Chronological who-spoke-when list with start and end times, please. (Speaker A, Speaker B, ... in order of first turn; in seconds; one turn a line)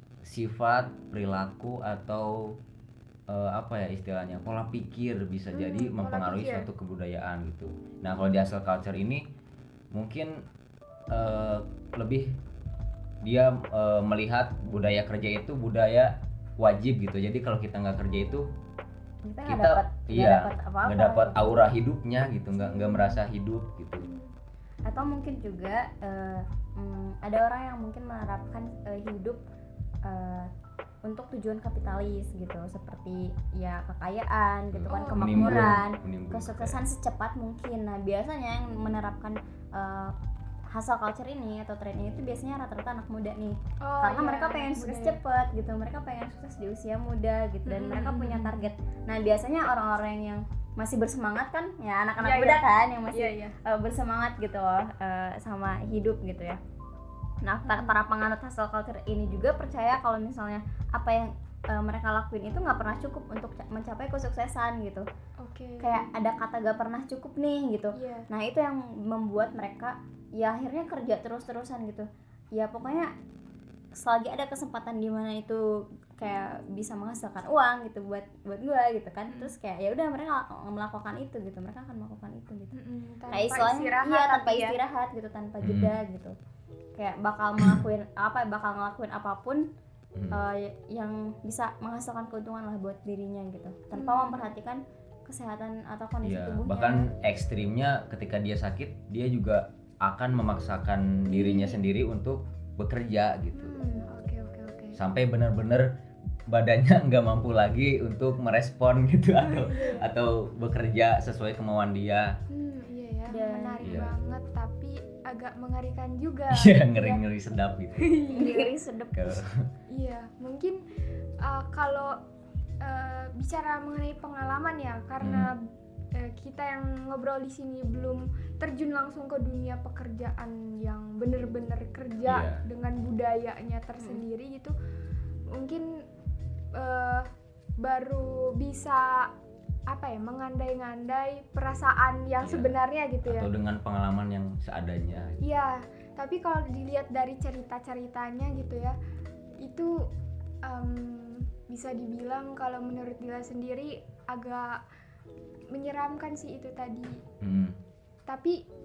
Speaker A: 0.2-2.6
Speaker A: 3.3-9.3
Speaker B: 5.5-6.7
Speaker A: 9.9-10.4
Speaker A: 11.1-12.4
Speaker A: 13.2-18.5
Speaker C: 19.2-21.6
Speaker A: 19.4-24.1
Speaker B: 22.5-23.2
Speaker B: 24.0-24.3
Speaker C: 24.8-29.4
Speaker C: 30.0-30.5
Speaker C: 31.0-40.1
Speaker A: 34.7-36.8
Speaker B: 34.9-35.8
Speaker C: 40.7-56.6
Speaker B: 43.8-45.2
Speaker B: 47.6-48.6
Speaker B: 52.2-53.5
Speaker C: 57.4-65.1
Speaker B: 57.6-58.0
Speaker B: 65.4-66.1
Speaker C: 65.8-73.1
Speaker B: 67.9-68.3
Speaker C: 73.9-75.6
Speaker C: 76.2-82.7
Speaker B: 82.7-84.8
Speaker C: 83.3-86.3
Speaker A: 85.6-85.9
Speaker C: 87.0-89.7
Speaker A: 90.2-90.4
Speaker C: 90.3-97.1
Speaker B: 93.9-94.5
Speaker A: 96.2-103.8
Speaker B: 101.3-101.8
Speaker B: 103.5-105.0
Speaker A: 105.0-105.9
Speaker A: 106.5-112.4
Speaker B: 109.5-110.1
Speaker B: 112.5-117.2
Speaker C: 113.3-113.9
Speaker A: 113.8-114.2
Speaker A: 116.5-118.4
Speaker B: 118.0-118.7
Speaker C: 118.3-119.3
Speaker A: 119.1-119.7
Speaker B: 119.9-120.8
Speaker B: 121.4-122.2
Speaker B: 122.8-134.7
Speaker A: 125.2-125.5
Speaker A: 132.2-132.6
Speaker B: 135.5-135.9
Speaker B: 136.7-137.3
Speaker B: 137.8-139.3
Speaker B: 139.9-143.5
Speaker A: 142.4-145.4
Speaker B: 145.4-148.9
Speaker B: 149.6-150.1
Speaker B: 150.6-154.8
Speaker B: 155.7-157.2
Speaker A: 157.4-157.8
Speaker B: 158.3-158.6